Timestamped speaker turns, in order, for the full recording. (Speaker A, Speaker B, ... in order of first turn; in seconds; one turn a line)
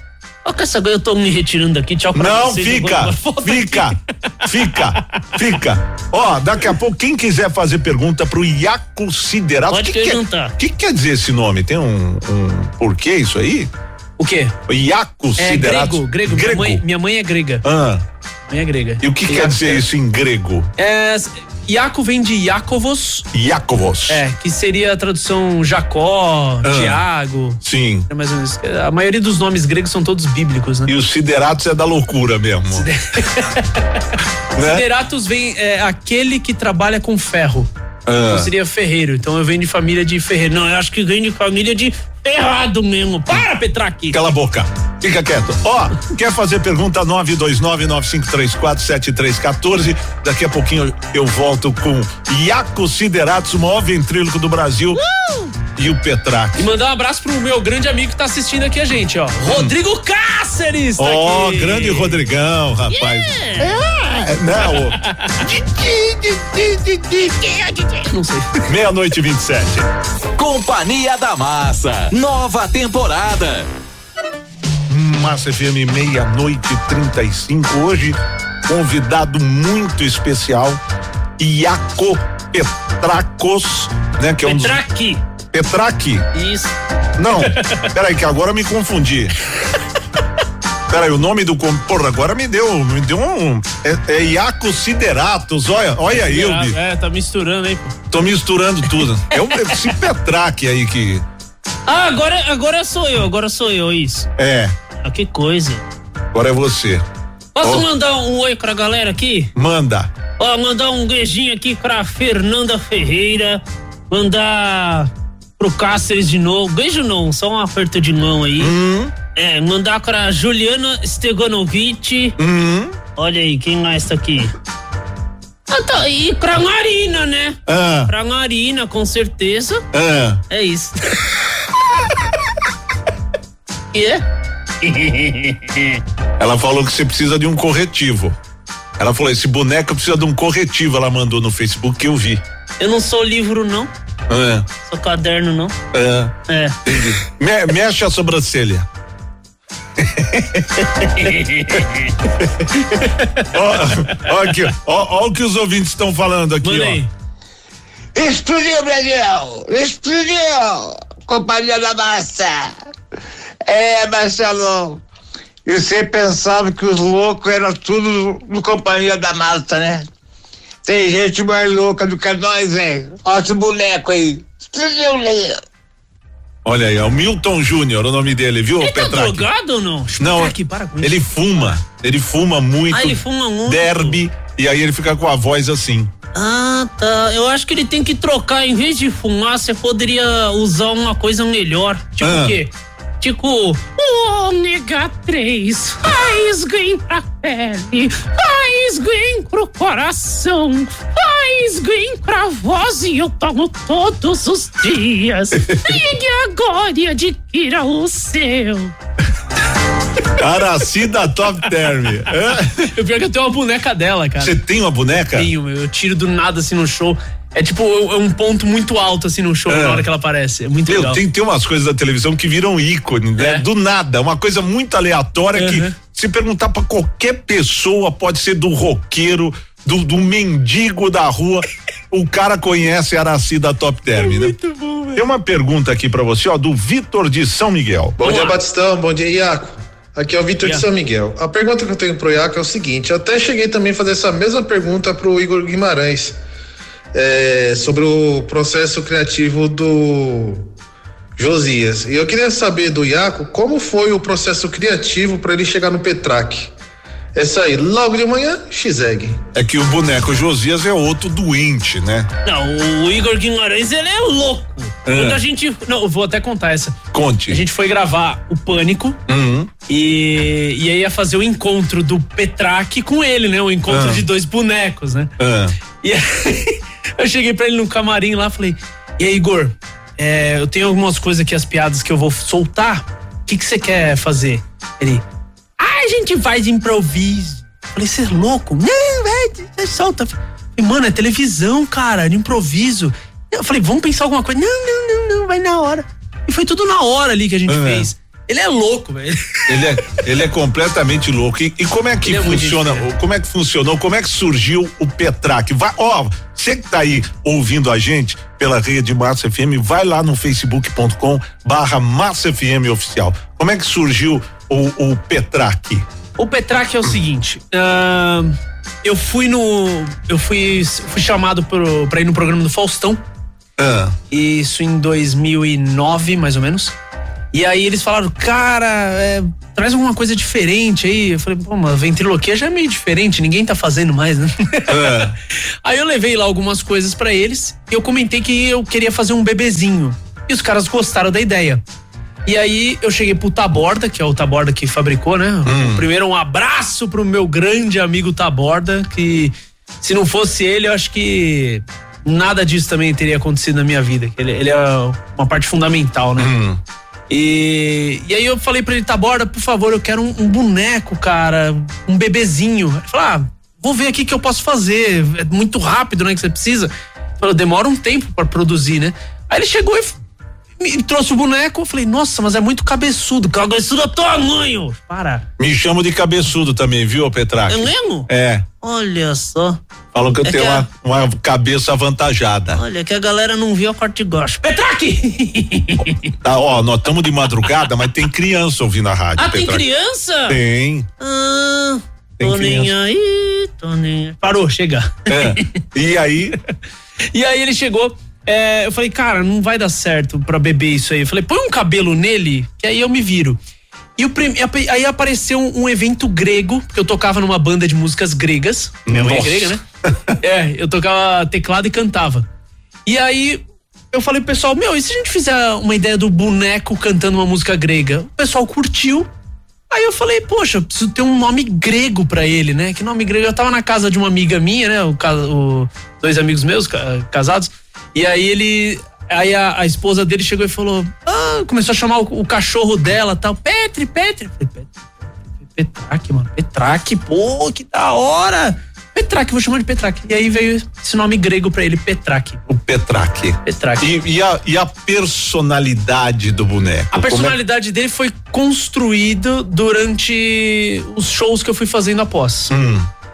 Speaker A: 0.4-3.9
Speaker B: 2.1-13.7
Speaker A: 9.7-10.5
Speaker A: 14.2-14.5
Speaker B: 14.7-16.8
Speaker A: 15.4-17.6
Speaker B: 17.6-18.0
Speaker A: 18.5-19.8
Speaker B: 19.0-20.7
Speaker A: 20.8-23.3
Speaker B: 23.3-24.2
Speaker A: 24.1-30.9
Speaker B: 26.6-27.0
Speaker B: 27.6-28.1
Speaker B: 30.9-32.9
Speaker A: 32.7-33.8
Speaker B: 34.5-34.9
Speaker A: 34.6-37.7
Speaker B: 38.0-38.5
Speaker A: 38.3-44.2
Speaker B: 44.1-55.0
Speaker A: 54.9-55.5
Speaker B: 55.8-56.7
Speaker A: 56.6-62.2
Speaker B: 59.5-59.7
Speaker B: 61.0-67.8
Speaker A: 62.9-63.8
Speaker A: 67.8-68.7
Speaker B: 68.7-69.9
Speaker C: 70.4-73.7
Speaker B: 74.9-80.8
Speaker B: 81.4-84.8
Speaker A: 84.4-85.2
Speaker B: 85.5-86.2
Speaker A: 86.3-86.7
Speaker B: 87.2-89.3
Speaker A: 87.4-87.9
Speaker B: 90.9-96.8
Speaker A: 96.1-98.0
Speaker B: 98.1-101.2
Speaker A: 99.3-99.8
Speaker A: 101.8-104.3
Speaker B: 104.4-104.8
Speaker A: 105.0-105.8
Speaker B: 106.3-107.0
Speaker A: 107.5-109.5
Speaker B: 109.5-110.1
Speaker A: 110.4-118.7
Speaker B: 118.6-119.1
Speaker A: 119.3-122.3
Speaker B: 122.4-122.9
Speaker A: 123.2-124.5
Speaker A: 125.7-129.8
Speaker B: 127.7-128.1
Speaker B: 129.9-130.4
Speaker A: 130.5-131.2
Speaker A: 133.9-134.2
Speaker A: 134.8-136.0
Speaker B: 136.4-138.4
Speaker B: 139.0-142.4
Speaker A: 142.8-143.9
Speaker B: 144.3-144.7
Speaker A: 144.8-145.8
Speaker B: 145.9-148.9
Speaker A: 146.5-147.0
Speaker B: 150.0-151.1
Speaker A: 151.1-152.1
Speaker A: 152.9-153.4
Speaker B: 153.5-157.0
Speaker A: 156.6-157.1
Speaker D: 158.1-162.7
Speaker D: 163.6-165.0
Speaker D: 165.7-170.1
Speaker D: 170.8-175.6
Speaker B: 176.6-179.5
Speaker A: 178.8-181.8
Speaker B: 180.2-186.1
Speaker A: 182.9-184.2
Speaker A: 186.3-208.9
Speaker B: 192.2-192.6
Speaker B: 205.7-206.0
Speaker B: 210.4-212.9
Speaker A: 212.8-214.6
Speaker B: 214.4-215.5
Speaker A: 215.3-221.2
Speaker B: 219.7-220.1
Speaker B: 220.9-234.6
Speaker A: 223.4-223.6
Speaker A: 225.5-225.9
Speaker A: 234.2-235.2
Speaker B: 235.1-238.2
Speaker E: 238.2-246.4
Speaker A: 238.2-238.6
Speaker E: 247.1-250.7
Speaker E: 251.4-256.7
Speaker E: 257.3-259.4
Speaker B: 259.5-262.3
Speaker A: 262.4-269.2
Speaker B: 265.1-265.4
Speaker B: 267.1-267.6
Speaker B: 269.3-269.7
Speaker A: 269.9-275.3
Speaker B: 273.9-274.2
Speaker B: 275.4-275.8
Speaker A: 276.0-285.2
Speaker A: 285.8-300.2
Speaker B: 297.7-298.1
Speaker B: 299.7-316.0
Speaker A: 302.2-303.1
Speaker A: 316.4-323.2
Speaker B: 323.8-324.1
Speaker A: 324.3-326.9
Speaker A: 327.5-335.3
Speaker B: 334.9-335.3
Speaker A: 335.8-341.8
Speaker A: 342.4-356.5
Speaker B: 345.6-346.0
Speaker B: 356.4-356.8
Speaker A: 357.3-370.2
Speaker A: 370.8-375.4
Speaker B: 375.6-378.6
Speaker A: 377.7-378.3
Speaker A: 378.8-379.8
Speaker B: 380.1-382.8
Speaker A: 380.4-380.9
Speaker A: 382.7-386.3
Speaker B: 386.3-389.9
Speaker A: 389.4-390.6
Speaker B: 390.5-391.1
Speaker A: 391.2-395.6
Speaker B: 392.4-392.9
Speaker B: 395.3-396.6
Speaker A: 397.3-403.6
Speaker A: 404.2-409.8
Speaker B: 409.1-410.3
Speaker A: 410.4-412.4
Speaker A: 413.1-419.3
Speaker A: 419.9-442.6
Speaker B: 442.7-447.6
Speaker A: 443.6-444.1
Speaker A: 447.1-452.7
Speaker B: 452.7-453.1